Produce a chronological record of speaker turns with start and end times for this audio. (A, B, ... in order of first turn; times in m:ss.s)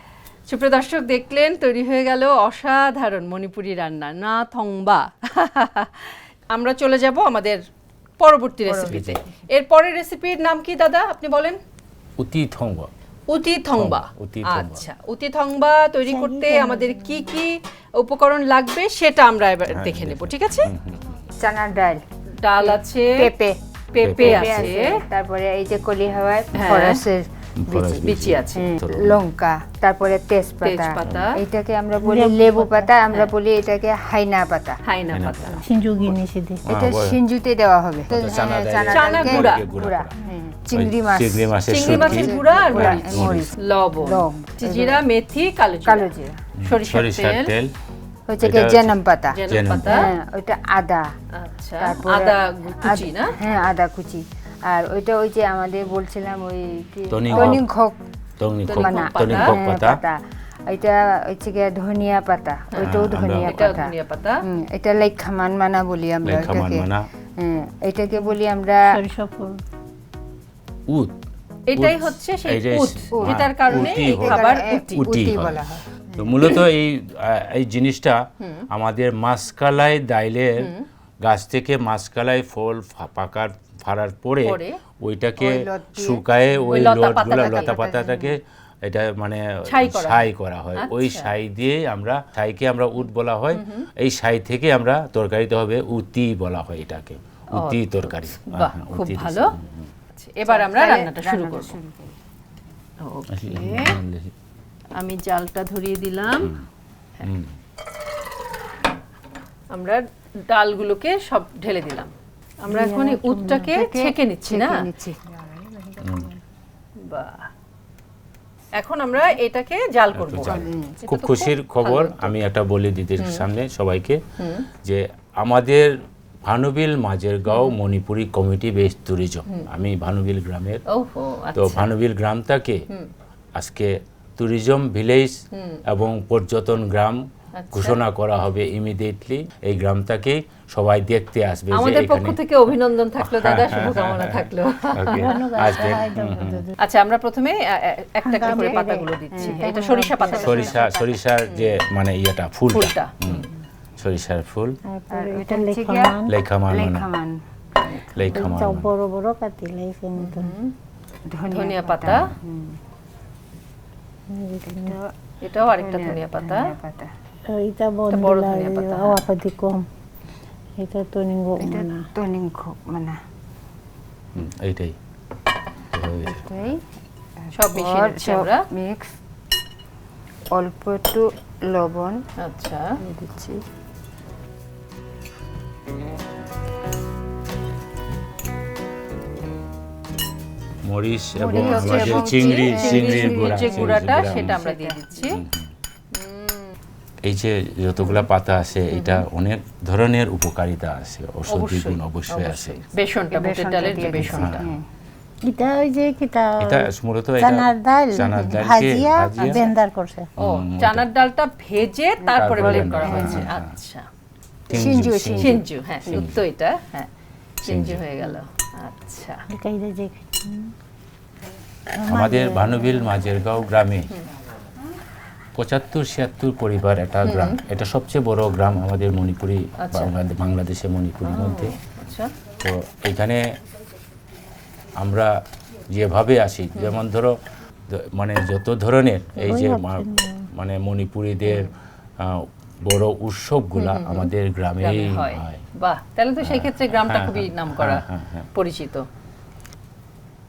0:00.5-0:07.6 A
0:08.2-0:11.6 A
0:08.6-0:09.1 B
0:08.9-0:09.2 C
0:12.2-0:12.9 C
0:13.3-0:20.7 A
0:13.8-0:14.8 C
0:16.1-0:17.3 D
0:19.7-0:21.1 C
0:21.4-0:22.0 B
0:22.4-0:23.3 A
0:22.6-0:34.8 B
0:23.9-0:25.0 A
0:24.0-0:24.8 C
0:26.5-0:27.0 A
0:27.6-0:29.2 C
0:28.0-0:28.6 A
0:30.6-0:31.4 A
0:32.0-0:32.9 D
0:34.8-0:35.6 A
0:35.1-0:35.6 C
0:35.6-0:36.6 D
0:36.6-0:37.2 C
0:36.6-0:45.0 B
0:38.1-0:40.1 C
0:38.9-0:39.6 A
0:40.7-0:43.5 C
0:41.6-0:46.1 A
0:45.8-0:46.4 B
0:46.6-0:47.7 C
0:46.6-0:47.5 A
0:48.3-0:51.1 B
0:48.4-0:49.0 C
0:49.3-0:50.1 A
0:49.5-0:50.1 C
0:51.3-0:53.4 A
0:51.8-0:58.0 B
0:57.1-0:57.7 C
0:58.4-1:00.0 C
0:58.7-0:59.5 A
0:58.7-1:03.9 B
1:02.7-1:04.4 A
1:02.8-1:03.5 C
1:04.4-1:08.9 B
1:06.2-1:07.1 C
1:08.8-1:09.6 D
1:10.9-1:11.1 C
1:11.7-1:15.1 A
1:11.7-1:20.7 C
1:13.1-1:16.5 B
1:18.4-1:18.7 A
1:20.6-1:20.9 A
1:21.2-1:39.9 C
1:24.4-1:24.8 A
1:25.4-1:28.3 B
1:26.7-1:28.1 A
1:29.7-1:31.3 A
1:33.5-1:33.9 A
1:37.5-1:39.5 A
1:40.1-1:41.7 A
1:40.5-1:42.2 B
1:43.0-1:44.0 A
1:43.3-1:44.3 C
1:45.0-1:46.5 A
1:47.2-1:47.5 C
1:49.7-1:54.8 A
1:52.7-1:53.7 D
1:53.7-1:56.4 B
1:56.0-1:56.3 C
1:57.0-1:57.5 A
1:58.8-2:02.3 A
2:00.2-2:04.2 C
2:00.4-2:01.0 B
2:03.2-2:03.4 A
2:04.4-2:04.7 A
2:04.8-2:05.9 C
2:06.4-2:10.8 C
2:07.5-2:07.8 A
2:10.9-2:11.8 A
2:11.5-2:12.8 C
2:13.6-2:22.4 C
2:15.5-2:15.8 A
2:17.6-2:18.0 A
2:21.7-2:25.3 A
2:23.2-2:26.6 C
2:25.1-2:26.7 D
2:26.8-2:30.8 A
2:28.2-2:30.7 D
2:28.4-2:31.2 B
2:30.4-2:33.5 C
2:31.5-2:31.8 A
2:32.7-2:33.5 A
2:34.0-2:34.8 C
2:34.8-2:36.3 D
2:35.1-2:37.4 B
2:36.3-2:37.1 C
2:37.8-2:38.1 A
2:38.1-2:38.9 C
2:38.3-2:40.5 D
2:40.2-2:40.7 A
2:41.3-2:42.8 B
2:41.5-2:42.3 A
2:42.0-2:42.3 C
2:44.3-2:45.0 D
2:44.6-2:45.1 B
2:45.4-2:46.7 A
2:45.7-2:47.1 B
2:47.5-2:49.8 D
2:48.1-2:49.2 A
2:50.8-2:52.0 D
2:51.6-2:53.2 B
2:54.3-2:54.9 C
2:55.9-2:56.4 C
2:56.2-2:56.8 B
2:57.4-2:59.1 B
2:57.5-2:58.6 A
3:00.5-3:02.2 B
3:02.4-3:02.9 A
3:03.0-3:03.6 B
3:10.8-3:14.6 C
3:11.4-3:15.3 B
3:11.5-3:15.4 A
3:15.3-3:15.7 C
3:16.1-3:16.7 A
3:17.2-3:22.7 C
3:18.9-3:19.2 A
3:21.5-3:24.7 A
3:23.3-3:24.8 B
3:24.2-3:24.6 C
3:25.4-3:30.3 D
3:26.6-3:29.6 C
3:29.4-3:29.6 B
3:30.4-3:31.0 C
3:30.4-3:34.1 A
3:32.2-3:33.5 B
3:32.4-3:33.7 C
3:34.7-3:36.4 C
3:34.7-3:35.6 B
3:35.4-3:37.1 A
3:37.6-3:39.4 A
3:37.6-3:38.0 C
3:39.5-3:40.7 D
3:41.9-3:43.2 D
3:42.1-3:44.1 C
3:45.6-3:51.7 C
3:47.2-3:47.6 A
3:49.8-3:50.1 A
3:51.2-3:52.3 A
3:52.6-3:53.4 C
3:55.0-3:55.4 C
3:55.9-3:57.3 C
3:57.9-4:05.6 C
3:59.4-4:00.5 D
4:01.4-4:01.7 A
4:03.8-4:04.3 A
4:04.8-4:09.1 A
4:06.4-4:08.5 C